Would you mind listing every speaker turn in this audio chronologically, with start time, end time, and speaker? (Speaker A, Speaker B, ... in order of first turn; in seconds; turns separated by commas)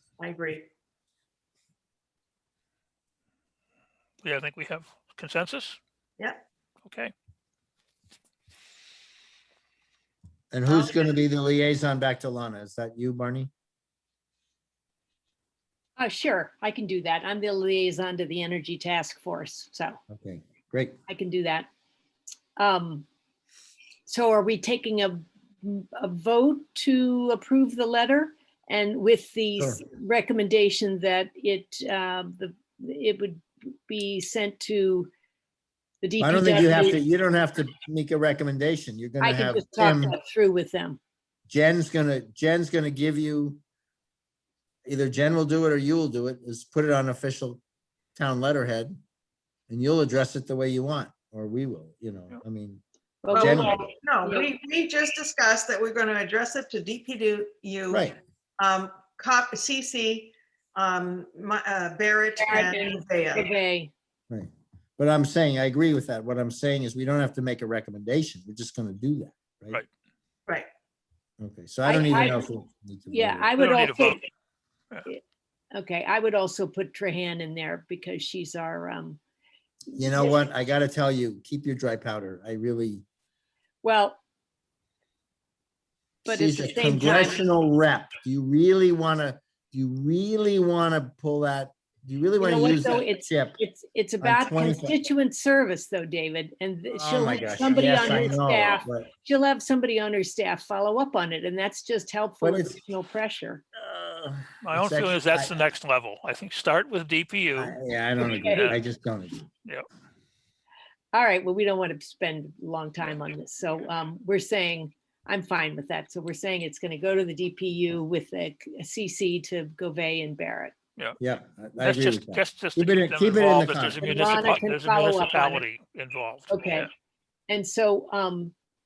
Speaker A: 0.2-0.7, Speaker B: 4.2-5.8, Speaker B: 6.8-7.1, Speaker C: 10.5-13.5, Speaker A: 10.7-11.1, Speaker D: 16.0-20.0, Speaker C: 20.1-21.0, Speaker D: 21.1-21.7, Speaker D: 22.6-23.0, Speaker D: 24.1-35.1, Speaker D: 36.0-37.0, Speaker C: 36.2-40.2, Speaker D: 39.2-41.0, Speaker C: 41.5-43.6, Speaker C: 44.9-47.6, Speaker C: 48.1-49.0, Speaker C: 49.7-53.9, Speaker D: 53.2-54.5, Speaker A: 53.3-63.5, Speaker C: 57.9-58.1, Speaker D: 62.4-63.9, Speaker C: 64.3-69.8, Speaker C: 71.4-73.6, Speaker D: 71.8-72.5, Speaker D: 73.1-74.3, Speaker B: 73.6-74.2, Speaker D: 75.0-79.2, Speaker D: 79.9-80.5, Speaker C: 79.9-83.0, Speaker D: 83.8-84.2, Speaker D: 86.2-87.4, Speaker C: 86.2-93.6, Speaker A: 87.0-87.4, Speaker D: 92.4-103.6, Speaker C: 94.2-95.0, Speaker C: 96.9-99.1, Speaker C: 102.4-102.8, Speaker C: 103.8-105.5, Speaker B: 104.6-107.8, Speaker C: 107.5-109.4, Speaker D: 108.2-108.8, Speaker D: 111.1-120.7, Speaker C: 121.2-124.3, Speaker B: 121.8-126.9, Speaker D: 124.0-125.6, Speaker D: 126.5-126.9, Speaker D: 127.5-128.5